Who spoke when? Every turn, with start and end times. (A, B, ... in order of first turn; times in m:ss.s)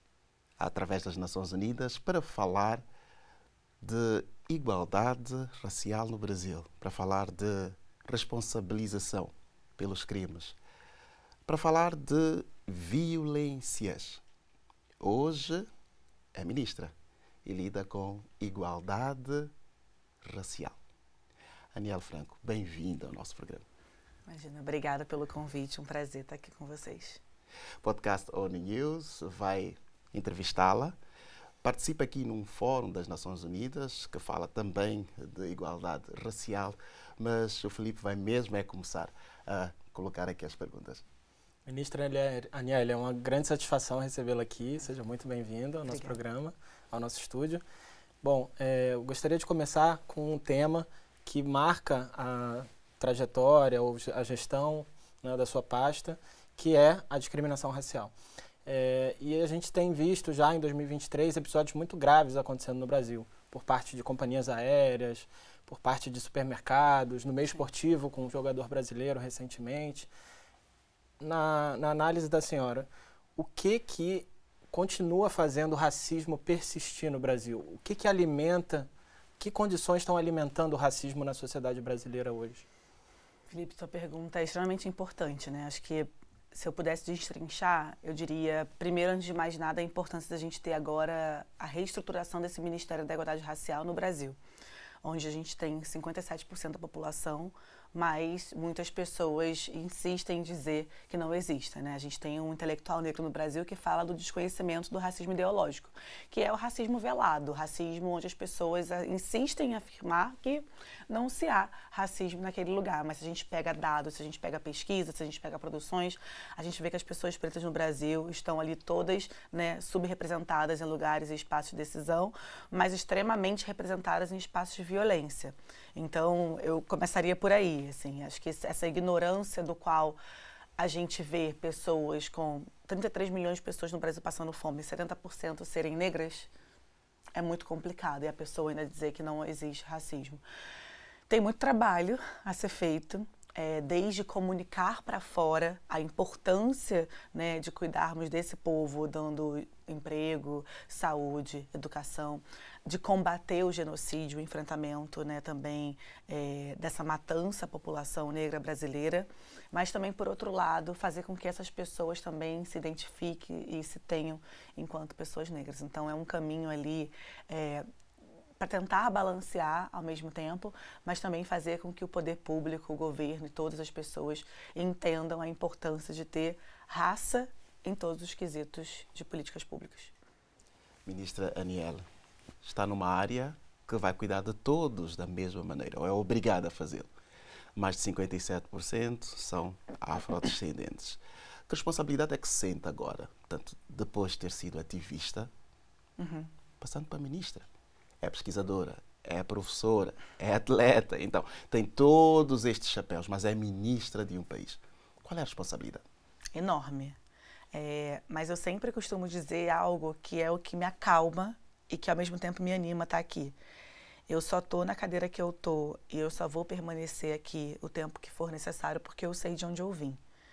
0:00.6-0:02.8 A
0:03.8-0:10.6 A
0:11.5-0:14.2 A
0:15.0-0:15.7 A
0:16.4-0:16.9 A
0:17.4-0:19.5 A
0:20.2-0:20.8 A
0:21.7-0:23.7 A
0:24.3-0:27.2 B
0:27.8-0:31.0 A
0:31.6-0:41.0 A
0:41.7-0:47.6 C
0:45.9-0:46.2 B
0:48.2-0:58.1 C
0:58.7-1:10.1 C
1:11.2-1:22.6 C
1:23.5-1:34.4 B
1:35.0-2:10.2 B
2:10.8-2:16.5 B
2:17.4-2:20.4 B
2:21.3-2:47.8 B
2:48.6-3:00.1 B
3:01.1-3:02.1 A
3:02.6-3:07.1 A
3:07.8-3:15.5 A
3:16.2-3:16.5 B
3:16.8-3:17.7 A
3:18.2-3:26.0 A
3:26.5-3:27.2 B
3:27.7-3:33.6 B
3:34.3-3:40.2 B